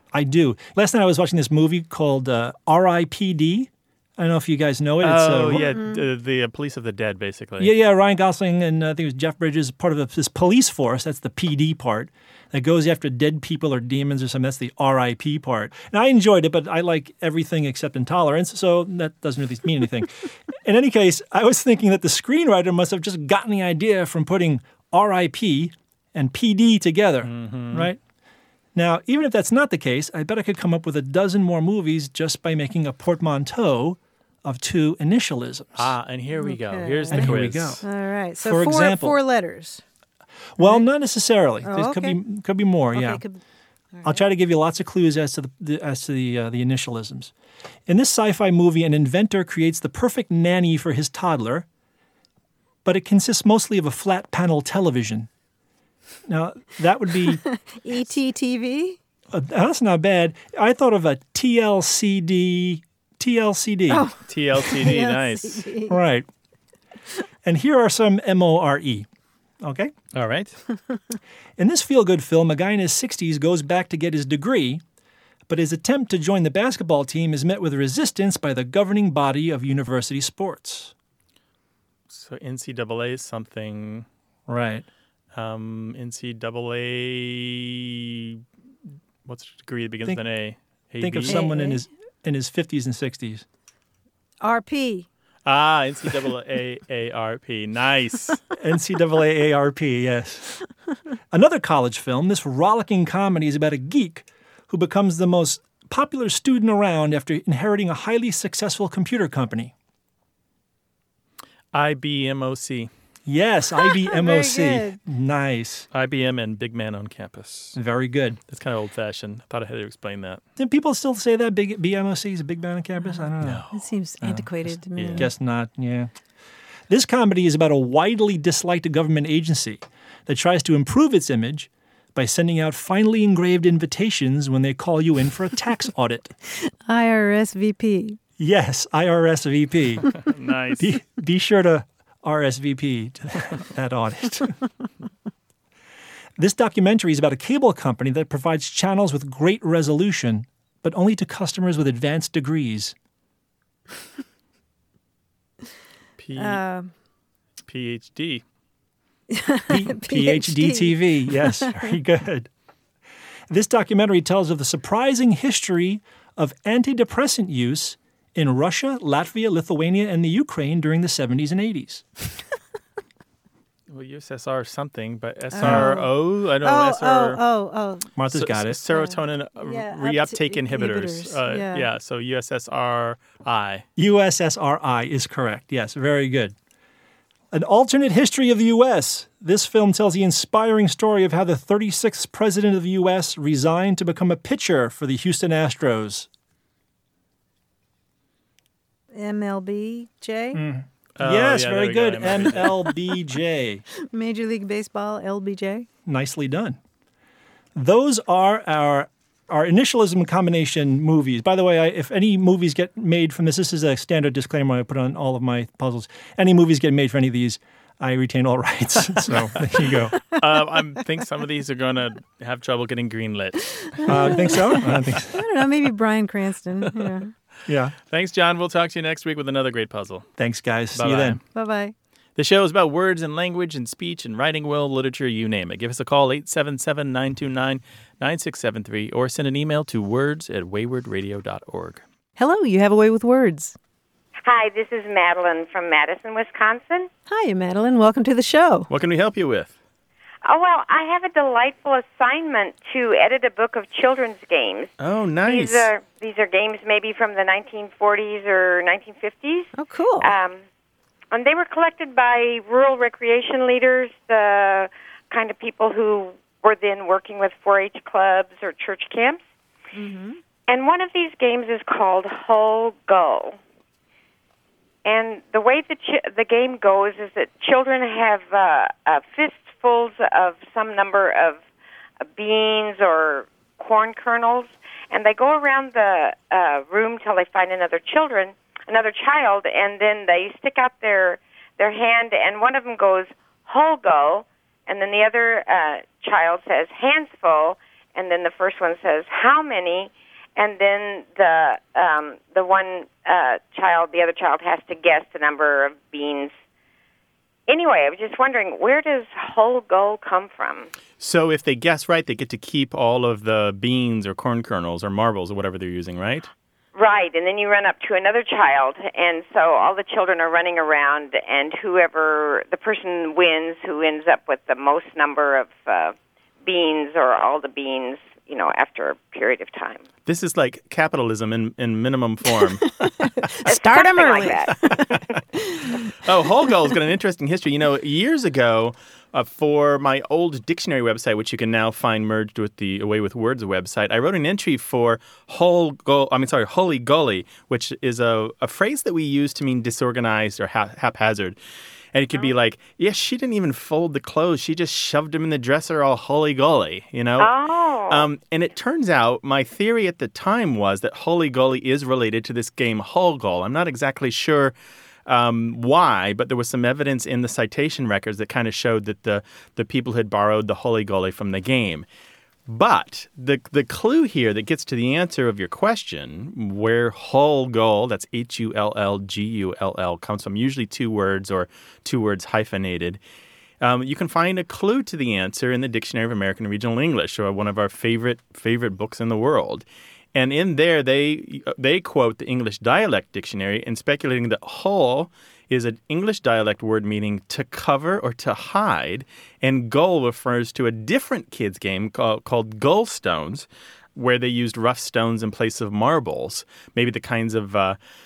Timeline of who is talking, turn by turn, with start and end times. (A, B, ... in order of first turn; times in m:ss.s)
0:00.1-0:05.7 A
0:05.0-0:07.7 B
0:05.7-0:06.0 C
0:07.6-0:28.0 A
0:27.2-0:27.9 B
0:28.7-0:35.9 A
0:35.8-0:37.8 B
0:36.4-0:39.8 C
0:37.1-0:37.8 A
0:38.4-0:39.2 A
0:40.6-0:43.2 A
0:40.6-0:40.8 C
0:41.6-0:42.2 C
0:42.9-0:43.4 C
0:43.9-0:44.2 C
0:44.0-0:47.3 A
0:47.9-0:51.6 A
0:52.8-0:55.3 A
0:56.2-0:57.4 A
0:57.7-0:59.0 C
0:59.3-1:04.1 A
1:03.9-1:06.0 C
1:04.3-1:05.7 B
1:05.9-1:06.3 A
1:07.4-1:09.1 A
1:09.6-1:09.9 A
1:10.1-1:10.6 B
1:11.6-1:14.8 A
1:15.5-1:20.9 A
1:22.1-1:24.0 B
1:24.5-1:24.8 A
1:25.3-1:28.4 B
1:29.2-1:31.4 B
1:31.0-1:33.4 A
1:31.3-1:31.8 C
1:34.4-1:35.1 C
1:35.4-1:38.4 B
1:38.6-1:40.6 A
1:41.3-1:49.7 A
1:51.7-1:52.9 B
1:53.2-1:55.9 A
1:54.0-1:55.0 C
1:55.9-1:57.8 B
1:57.7-1:58.4 A
1:58.5-2:00.4 B
2:00.6-2:03.6 A
2:03.1-2:05.3 C
2:03.4-2:03.7 B
2:04.2-2:06.1 A
2:05.0-2:05.3 B
2:06.9-2:16.3 A
2:16.9-2:18.2 C
2:18.4-2:20.1 A
2:20.2-2:20.9 B
2:20.8-2:24.6 A
2:26.4-2:32.9 A
2:36.2-2:36.6 B
2:36.4-2:36.9 C
2:37.7-2:38.4 B
2:39.3-2:41.9 C
2:39.7-2:42.5 A
2:43.5-2:52.0 A
2:53.9-2:57.4 B
2:55.5-2:58.1 C
2:55.6-2:55.9 A
2:58.2-2:58.8 A
2:58.3-3:03.8 B
2:58.9-3:01.9 C
3:04.0-3:06.5 A
3:07.5-3:16.3 A
3:19.1-3:20.6 C
3:20.5-3:23.8 A
3:21.2-3:22.7 B
3:24.1-3:25.9 C
3:26.0-3:26.8 A
3:27.7-3:40.2 A
3:40.3-3:44.3 B
3:44.0-3:47.3 C
3:44.0-3:45.4 A
3:47.6-3:47.9 A
3:48.1-3:50.3 B
3:50.4-3:51.4 A
3:50.9-3:51.4 B
3:51.5-3:51.9 C
3:52.4-4:02.0 B
4:02.4-4:03.8 C
4:04.4-4:07.1 D
4:07.3-4:08.9 C
4:08.9-4:09.7 B
4:10.4-4:14.9 D
4:15.0-4:15.9 B
4:15.4-4:19.7 D
4:19.8-4:20.3 C
4:20.2-4:20.6 D
4:21.3-4:29.4 D
4:29.9-4:30.4 C
4:30.7-4:33.6 D
4:35.0-4:41.6 D
4:42.3-5:06.5 D
5:07.7-5:10.9 D
5:11.2-5:16.5 B
5:16.9-5:26.1 D
5:26.6-5:30.0 D
5:30.2-5:32.9 B
5:32.6-5:36.1 C
5:33.7-5:34.7 D
5:36.2-5:51.6 B
5:52.1-5:57.5 B
5:57.4-5:58.2 D
5:58.1-6:04.7 B
6:05.3-6:12.0 B
6:12.7-6:23.2 B
6:23.8-6:48.0 B